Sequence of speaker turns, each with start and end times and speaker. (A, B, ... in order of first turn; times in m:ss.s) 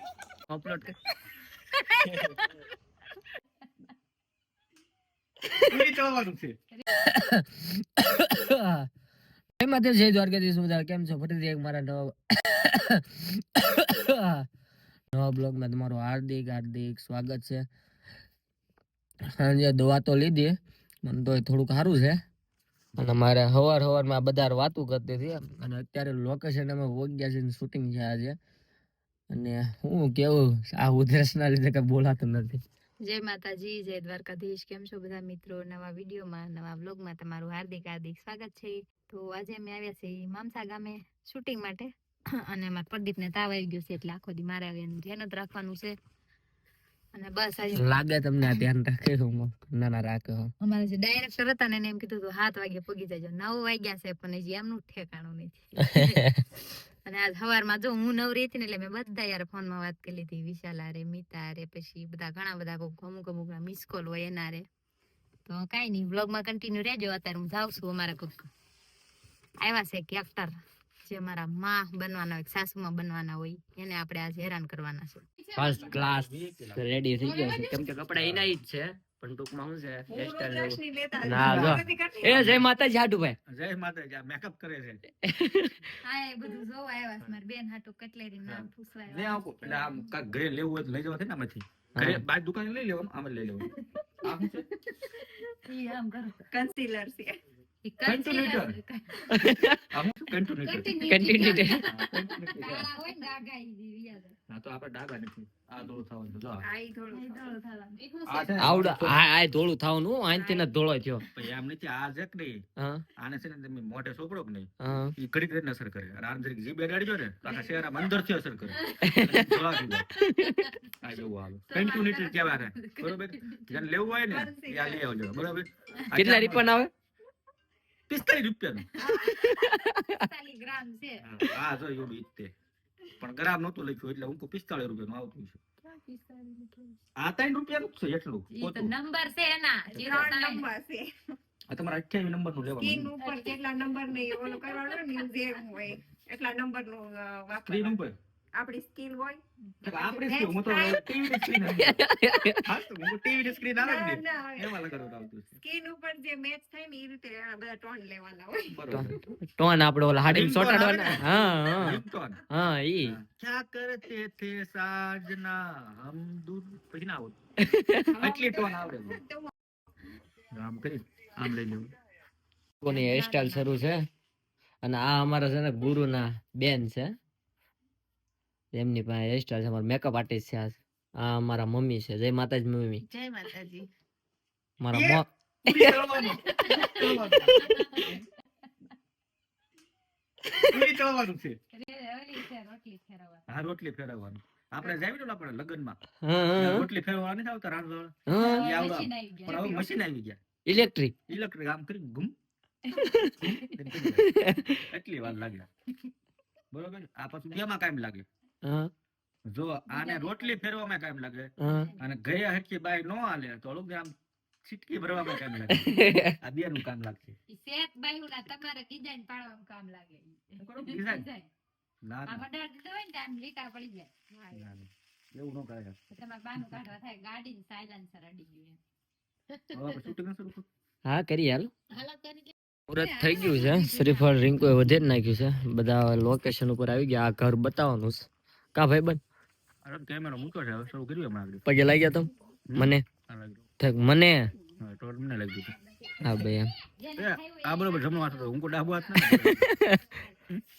0:00.5-0:01.0 A
0:05.6-0:06.6 B
0:06.9-0:08.9 A
0:09.6-0:14.5 A
0:15.1-0:17.7 A
0:19.3-0:22.2 A
0:23.0-0:28.4 A
0:29.3-0:32.6 A
0:33.0-0:41.9 C
0:42.5-0:45.9 C
0:47.2-0:47.9 C
0:47.7-0:50.5 A
0:50.6-0:56.2 C
0:55.9-0:56.2 A
0:57.0-1:04.6 C
1:05.5-1:08.5 C
1:09.6-1:10.5 C
1:11.1-1:15.2 C
1:15.6-1:23.4 A
1:15.8-1:16.8 B
1:17.2-1:17.6 C
1:18.2-1:18.5 B
1:20.1-1:22.6 D
1:21.3-1:21.8 B
1:23.5-1:25.0 B
1:25.2-1:25.7 A
1:26.0-1:30.1 C
1:28.5-1:33.7 B
1:32.0-1:32.2 A
1:34.2-1:34.6 B
1:35.6-1:36.5 C
1:36.5-1:37.3 D
1:37.8-1:39.2 C
1:38.0-1:38.8 B
1:39.3-1:39.8 A
1:39.9-1:40.9 B
1:40.6-1:44.4 C
1:41.0-1:41.9 A
1:41.9-1:42.9 B
1:44.5-1:46.7 B
1:46.6-1:47.5 D
1:47.1-1:48.5 C
1:48.3-1:49.2 B
1:48.6-1:51.2 A
1:51.4-1:52.6 B
1:52.8-1:53.0 A
1:53.2-2:00.1 B
1:54.8-1:55.1 A
1:58.7-1:59.0 C
1:59.0-1:59.5 A
2:00.3-2:00.6 A
2:01.0-2:06.7 B
2:01.7-2:03.8 C
2:04.3-2:05.0 D
2:06.1-2:06.9 A
2:08.1-2:08.9 B
2:09.0-2:09.4 D
2:09.4-2:10.1 A
2:10.2-2:11.2 C
2:11.2-2:12.5 B
2:13.2-2:15.6 B
2:15.9-2:16.9 C
2:17.2-2:18.9 B
2:18.5-2:20.7 C
2:20.0-2:21.1 D
2:21.7-2:23.1 B
2:22.8-2:28.0 D
2:23.2-2:23.6 C
2:24.4-2:25.0 C
2:27.6-2:28.2 B
2:28.6-2:31.1 D
2:29.8-2:32.0 B
2:31.7-2:32.7 A
2:32.6-2:35.5 B
2:33.8-2:34.8 D
2:35.6-2:38.8 D
2:38.7-2:39.2 B
2:38.9-2:43.2 A
2:40.2-2:42.4 B
2:43.0-2:47.4 B
2:47.6-2:48.1 A
2:48.1-2:49.5 D
2:48.2-2:49.2 B
2:50.5-2:51.9 B
2:52.8-2:54.1 A
2:54.8-2:57.1 A
2:58.7-3:03.0 A
3:03.1-3:03.9 D
3:04.8-3:05.9 A
3:04.9-3:07.6 B
3:06.2-3:08.2 C
3:10.6-3:11.6 B
3:11.7-3:13.4 C
3:13.5-3:16.0 B
3:16.2-3:16.9 A
3:16.6-3:20.4 B
3:18.3-3:18.7 A
3:18.3-3:19.9 C
3:20.7-3:21.1 A
3:21.3-3:22.3 B
3:23.0-3:23.3 A
3:23.4-3:25.7 B
3:24.2-3:24.8 A
3:26.7-3:28.3 B
3:28.6-3:28.9 A
3:29.5-3:34.1 B
3:29.9-3:30.5 C
3:31.6-3:31.9 A
3:31.7-3:31.9 C
3:34.6-3:37.4 B
3:35.8-3:36.3 A
3:37.5-3:41.5 C
3:40.6-3:41.3 B
3:42.0-3:42.5 B
3:42.3-3:44.5 C
3:44.5-3:46.0 B
3:46.1-3:48.8 C
3:49.7-3:50.1 C
3:49.7-3:50.7 B
3:51.0-3:51.7 A
3:52.0-3:52.3 C
3:52.9-3:59.2 A
3:53.0-3:54.4 C
3:59.8-4:01.6 B
4:01.7-4:03.0 A
4:02.7-4:03.6 B
4:03.8-4:04.5 A
4:04.8-4:05.7 B
4:06.2-4:06.7 A
4:07.0-4:08.5 C
4:07.2-4:09.7 B
4:09.2-4:10.0 A